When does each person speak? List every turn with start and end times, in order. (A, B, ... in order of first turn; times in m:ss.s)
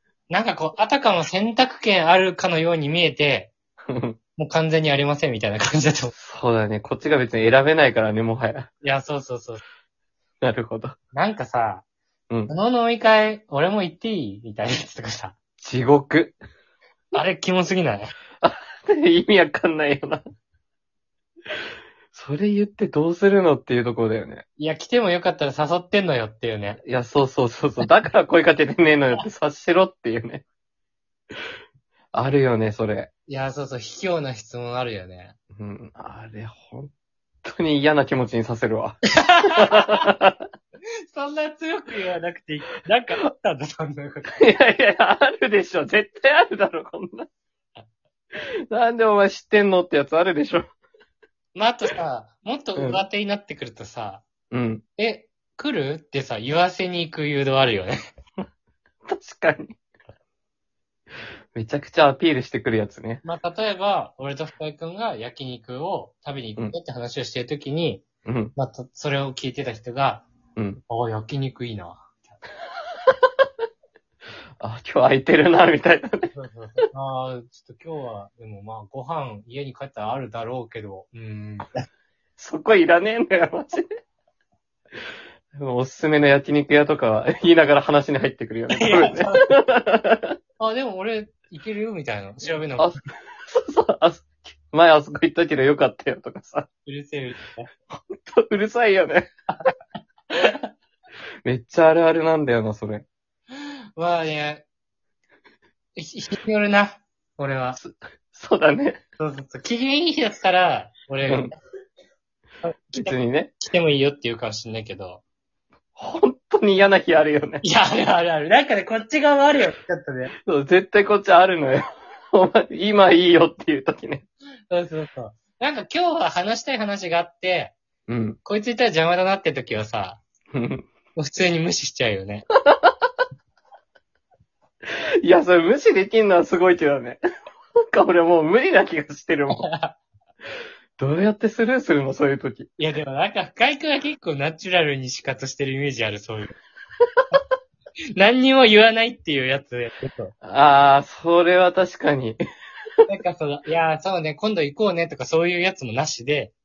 0:00.3-0:03.5 A
0:03.9-0:04.2 B
0:04.4-0:06.1 A
0:06.2-0:08.7 B
0:08.8-0:09.6 A
0:10.4-0:11.0 B
0:11.1-0:11.8 A
0:12.5-0:15.4 A
0:15.6-0:16.4 B
0:17.1-0:18.1 A
0:18.4-0:20.2 B
0:22.1-0:24.4 B
0:24.6-0:26.8 A
0:26.8-0:30.4 B
0:32.1-0:33.1 B
0:33.3-0:35.4 A
0:35.6-0:36.9 B
0:37.4-0:40.4 B
0:39.2-0:40.1 A
0:41.1-0:44.4 A
0:44.3-0:47.3 B
0:48.4-0:50.7 B
0:51.6-0:54.2 A
0:52.8-0:53.0 B
0:54.5-0:54.8 B
0:55.0-0:58.0 A
0:59.1-0:59.8 B
1:01.5-1:03.2 B
1:03.2-1:08.0 A
1:08.2-1:08.6 B
1:08.6-1:10.3 A
1:10.6-1:10.8 B
1:10.9-1:12.4 A
1:14.6-1:16.3 B
1:16.3-1:21.8 A
1:22.4-1:23.9 B
1:25.5-1:30.4 B
1:28.7-1:29.5 A
1:30.6-1:33.0 A
1:33.5-1:36.7 B
1:36.8-1:37.7 A
1:37.9-1:39.3 B
1:41.4-1:43.1 B
1:43.6-1:44.6 A
1:46.0-1:47.8 A
1:47.8-1:49.0 B
1:49.2-1:51.6 A
1:51.3-1:51.5 B
1:52.6-1:55.2 A
1:53.0-1:53.5 B
1:56.0-1:57.6 B
1:57.6-2:00.3 A
2:00.5-2:04.2 B
2:04.7-2:07.8 A
2:08.1-2:08.4 B
2:08.4-2:10.2 A
2:10.5-2:10.9 B
2:11.2-2:12.5 A
2:14.9-2:17.2 B
2:17.9-2:19.7 B
2:19.5-2:20.0 A
2:21.0-2:22.7 B
2:22.8-2:26.6 A
2:28.2-2:30.3 A
2:30.4-2:32.4 B
2:33.1-2:36.5 A